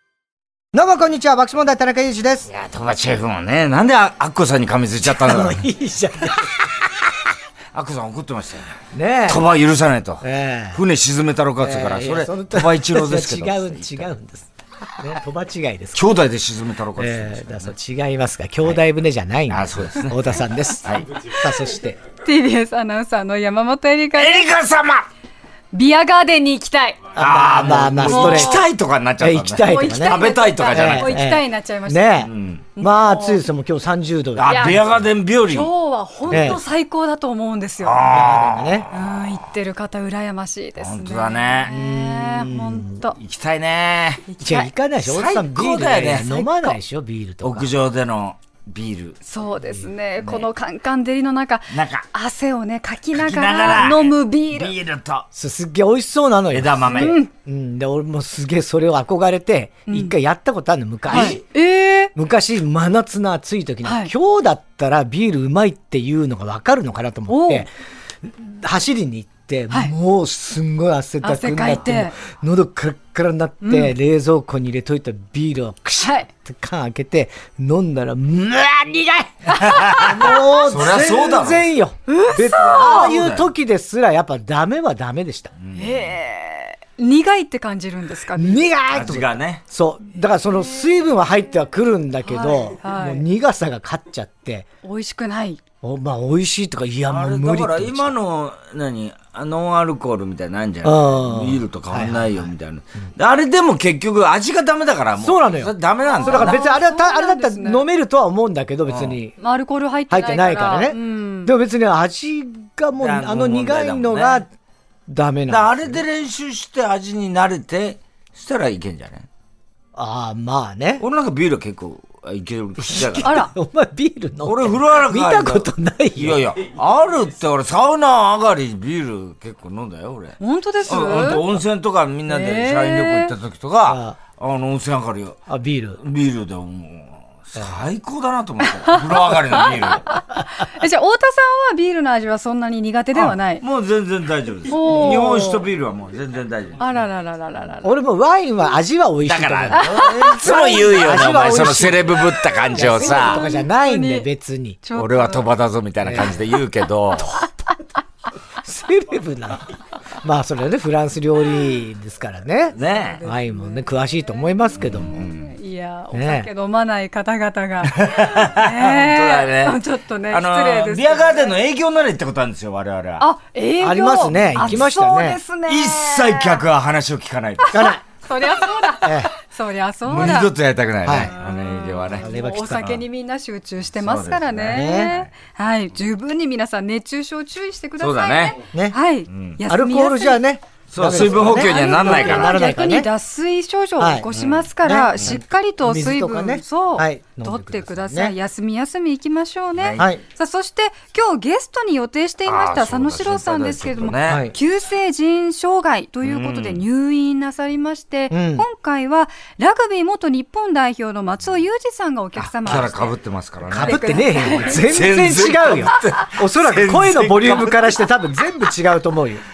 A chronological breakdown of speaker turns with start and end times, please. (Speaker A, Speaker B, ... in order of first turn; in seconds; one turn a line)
Speaker A: 0.7-2.5
Speaker B: 2.5-5.7
Speaker A: 5.0-6.7
Speaker B: 7.7-8.7
Speaker A: 8.9-9.4
Speaker B: 9.3-14.1
Speaker A: 10.2-10.8
Speaker A: 11.6-16.1
Speaker B: 15.9-17.7
Speaker A: 17.0-20.9
Speaker B: 19.5-21.1
Speaker C: 21.3-21.6
Speaker A: 21.4-22.0
Speaker C: 22.2-24.5
Speaker B: 24.2-25.1
Speaker C: 25.7-27.1
Speaker A: 27.1-28.7
Speaker B: 27.2-31.2
Speaker C: 28.1-28.6
Speaker A: 29.2-35.0
Speaker C: 29.6-33.4
Speaker B: 32.2-32.7
Speaker B: 34.4-35.7
Speaker C: 34.5-34.9
Speaker C: 35.4-38.1
Speaker B: 36.3-36.6
Speaker A: 36.3-36.6
Speaker B: 37.8-39.2
Speaker A: 38.1-38.9
Speaker C: 38.9-43.2
Speaker B: 40.8-41.7
Speaker A: 41.7-43.0
Speaker B: 43.2-44.2
Speaker C: 44.3-44.7
Speaker A: 44.4-47.7
Speaker B: 45.0-46.5
Speaker B: 47.4-49.2
Speaker C: 49.2-54.7
Speaker B: 50.2-50.5
Speaker B: 51.7-52.1
Speaker B: 53.1-55.3
Speaker A: 55.3-61.4
Speaker B: 56.5-57.1
Speaker C: 57.0-57.3
Speaker C: 59.9-60.2
Speaker B: 61.1-61.4
Speaker C: 61.1-62.1
Speaker A: 62.1-67.7
Speaker C: 63.9-64.1
Speaker C: 67.3-67.7
Speaker A: 68.2-85.5
Speaker C: 71.2-72.1
Speaker C: 73.6-73.9
Speaker C: 76.0-76.3
Speaker B: 79.5-81.7
Speaker C: 79.6-80.1
Speaker C: 82.1-83.2
Speaker B: 82.7-83.5
Speaker B: 85.6-86.1
Speaker C: 85.8-88.6
Speaker A: 88.3-94.7
Speaker B: 88.9-89.6
Speaker C: 92.2-93.2
Speaker C: 94.8-95.6
Speaker A: 95.8-98.1
Speaker B: 97.1-106.6
Speaker A: 100.8-102.5
Speaker A: 105.2-109.3
Speaker C: 106.1-107.9
Speaker B: 108.9-109.2
Speaker C: 109.4-111.5
Speaker A: 110.1-114.5
Speaker B: 113.0-114.5
Speaker A: 115.1-116.0
Speaker B: 115.5-119.3
Speaker A: 120.0-121.0
Speaker B: 121.0-123.3
Speaker A: 122.8-126.4
Speaker C: 123.2-123.5
Speaker B: 124.5-135.4
Speaker C: 130.4-131.4
Speaker C: 132.3-133.3
Speaker A: 133.9-134.2
Speaker A: 135.5-136.0
Speaker B: 136.0-140.2
Speaker C: 138.6-143.6
Speaker B: 143.2-146.9
Speaker C: 144.7-145.3
Speaker A: 144.9-145.7
Speaker C: 146.8-147.9
Speaker A: 147.8-154.8
Speaker B: 149.2-153.4
Speaker C: 149.8-151.0
Speaker C: 152.7-154.3
Speaker C: 154.8-155.5
Speaker B: 154.9-157.5
Speaker A: 156.0-156.3
Speaker A: 158.6-165.1
Speaker B: 162.8-163.2
Speaker C: 162.8-163.9
Speaker B: 164.8-165.5
Speaker C: 165.1-171.5
Speaker A: 166.1-166.5
Speaker B: 167.8-173.3
Speaker C: 173.2-176.6
Speaker A: 173.8-175.4
Speaker B: 174.6-174.8
Speaker B: 175.7-177.8
Speaker C: 177.6-180.5
Speaker A: 177.7-178.0
Speaker A: 178.9-179.3
Speaker B: 180.1-182.3
Speaker A: 181.0-181.3
Speaker C: 181.2-190.4
Speaker A: 182.1-183.0
Speaker B: 183.9-185.3
Speaker A: 184.7-185.2
Speaker B: 188.0-188.6
Speaker A: 188.7-189.0
Speaker B: 189.3-189.6
Speaker A: 189.7-193.1
Speaker B: 190.9-192.6
Speaker C: 191.3-213.1
Speaker A: 194.0-194.3
Speaker B: 194.3-194.7
Speaker A: 194.8-198.4
Speaker B: 199.8-200.1
Speaker B: 202.5-204.4
Speaker A: 204.2-204.6
Speaker B: 206.2-206.8
Speaker A: 208.3-208.7
Speaker B: 212.4-218.0
Speaker C: 213.7-214.8
Speaker A: 213.8-219.4